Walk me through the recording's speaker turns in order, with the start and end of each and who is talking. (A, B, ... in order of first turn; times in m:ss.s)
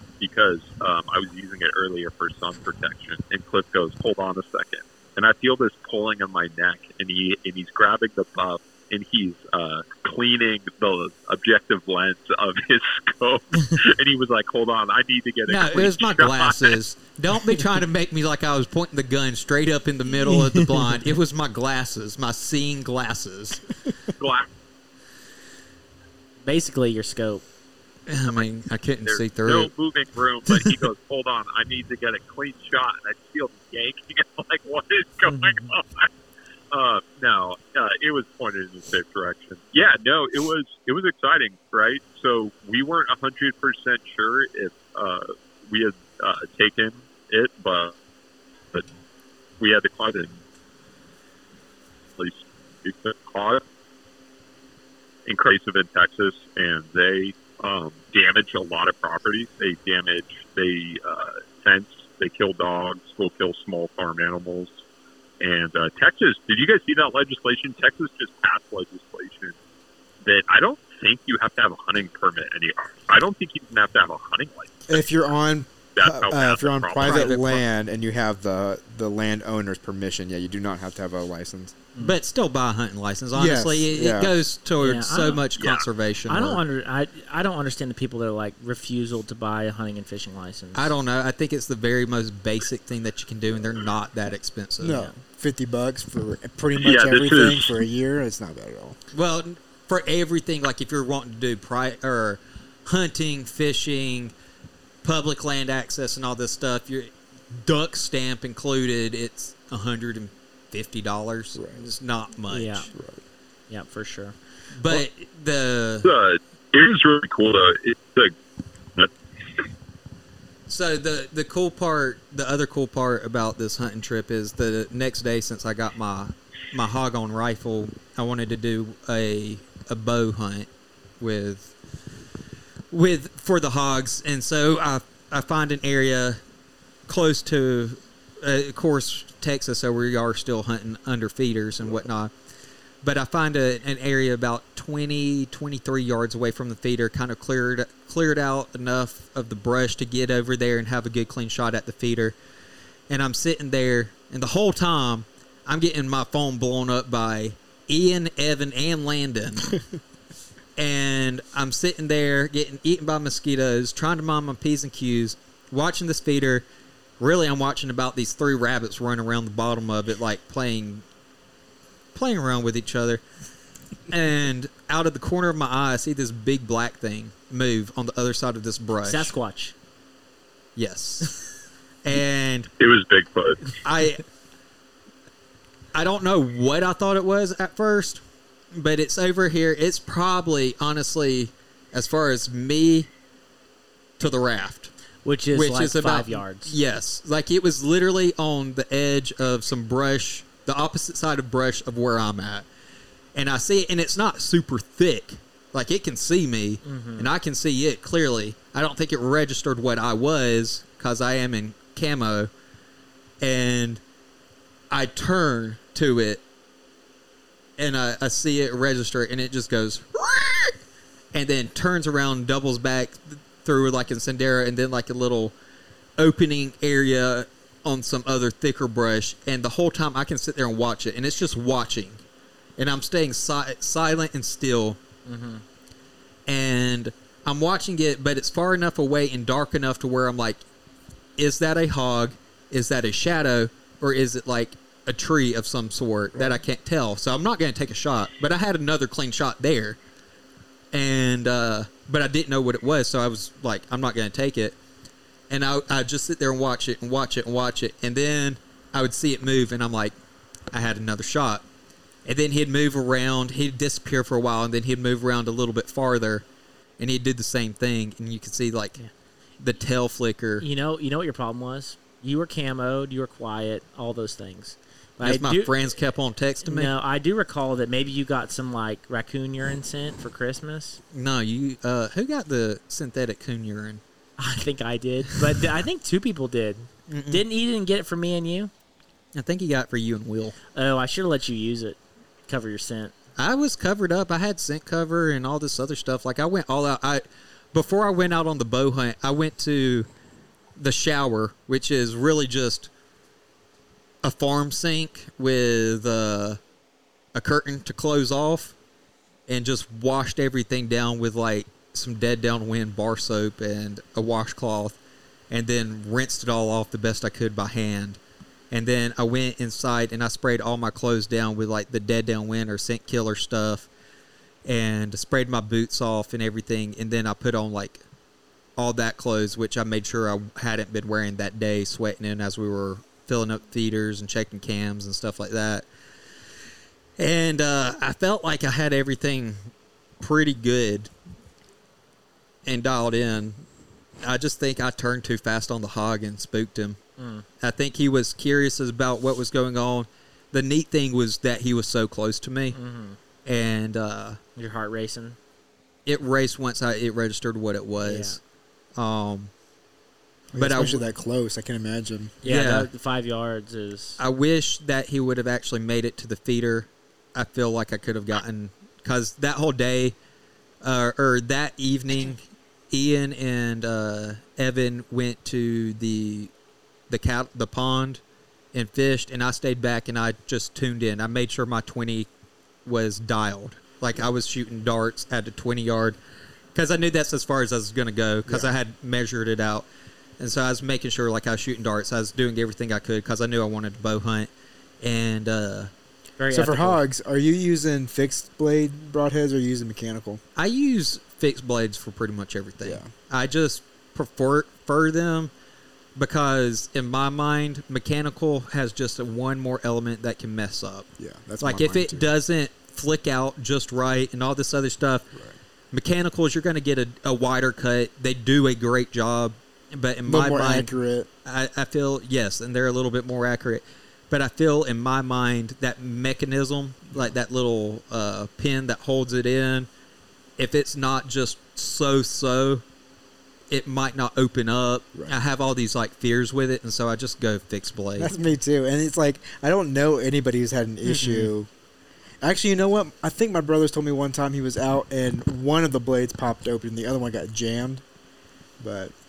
0:00.2-0:16.8 A
0:15.5-0:23.7 B
0:20.3-0:20.9 C
0:24.2-0:24.5 A
0:26.4-0:27.4 C
0:28.1-0:29.7 B
0:29.0-0:36.1 A
0:35.3-0:35.6 C
0:36.7-0:48.0 A
0:49.6-0:50.4 A
0:52.2-0:53.6 A
0:55.3-1:04.7 A
1:05.4-1:09.6 A
1:10.2-1:14.8 A
1:14.9-1:21.8 D
1:16.0-1:17.6 A
1:17.0-1:17.6 B
1:22.0-1:26.6 B
1:23.3-1:24.4 D
1:24.8-1:25.4 C
1:25.6-1:25.8 A
1:26.3-1:30.9 C
1:30.8-1:35.0 B
1:34.8-1:39.0 D
1:34.9-1:35.1 C
1:36.8-1:37.8 A
1:39.1-1:44.3 B
1:45.0-1:52.9 B
1:51.6-1:51.9 D
1:52.5-1:52.9 C
1:52.9-1:53.2 D
1:53.7-1:54.4 C
1:54.7-1:56.1 B
1:56.0-1:58.3 A
2:00.7-2:10.7 B
2:11.2-2:11.7 B
2:12.9-2:16.4 B
2:17.1-2:22.3 B
2:23.0-2:32.4 B
2:33.1-2:39.8 B
2:40.8-2:46.6 B
2:47.2-2:51.0 B
2:52.2-2:53.2 B
2:54.1-2:59.3 B
2:59.0-2:59.7 C
3:00.8-3:01.4 B
3:02.0-3:02.7 B
3:02.8-3:03.8 A
3:03.8-3:04.2 B
3:05.9-3:08.2 B
3:08.7-3:13.1 B
3:14.2-3:14.9 B
3:15.2-3:16.8 C
3:15.5-3:22.7 B
3:23.4-3:32.5 B
3:26.8-3:27.3 C
3:33.4-3:34.0 B
3:34.9-3:36.4 B
3:37.8-3:40.8 B
3:41.3-3:45.5 B
3:46.2-3:52.2 B
3:52.8-3:55.0 B
3:55.3-3:55.6 C
3:56.5-4:00.6 B
4:01.4-4:10.0 B
4:06.3-4:06.6 D
4:10.9-4:14.8 B
4:15.5-4:20.1 B
4:20.7-4:21.6 B
4:22.2-4:26.4 B
4:27.0-4:29.0 B
4:29.6-4:30.6 B
4:30.6-4:35.7 C
4:35.2-4:36.9 B
4:36.6-4:41.0 C
4:41.1-4:44.0 B
4:44.4-4:48.7 C
4:47.1-4:47.4 B
4:49.4-4:50.6 B
4:50.7-4:53.1 C
4:53.4-5:00.1 B
5:00.8-5:02.9 B
5:04.2-5:06.6 B
5:07.4-5:08.8 B
5:09.5-5:15.0 B
5:15.5-5:18.2 B
5:18.7-5:23.9 B
5:24.6-5:28.0 B
5:28.8-5:35.9 B
5:37.2-5:39.7 B
5:40.2-5:41.1 B
5:42.6-5:43.6 B
5:44.2-5:47.0 B
5:47.2-5:47.4 C
5:47.6-5:52.8 B
5:52.7-5:53.2 C
5:53.4-5:54.4 B
5:54.6-5:55.4 C
5:56.1-5:58.4 B
5:58.0-5:58.4 C
5:59.0-5:59.5 B
6:00.5-6:02.4 D
6:00.6-6:01.1 B
6:02.4-6:02.9 B
6:02.4-6:04.2 C
6:04.2-6:10.2 B
6:10.8-6:16.5 B
6:17.1-6:18.2 B
6:18.7-6:22.3 B
6:22.8-6:26.2 B
6:26.8-6:29.9 B
6:30.4-6:34.5 B
6:35.0-6:35.9 B
6:36.4-6:37.0 C
6:36.5-6:40.4 D
6:40.6-6:45.5 B
6:42.8-6:43.1 D
6:46.2-6:51.1 B
6:51.2-6:52.3 D
6:51.6-6:55.3 B
6:55.9-7:00.9 B
7:00.3-7:01.3 D
7:01.4-7:09.9 B
7:10.6-7:12.8 B
7:13.7-7:18.3 B
7:18.2-7:21.7 D
7:21.0-7:21.5 B
7:22.4-7:28.0 D
7:28.8-7:29.1 D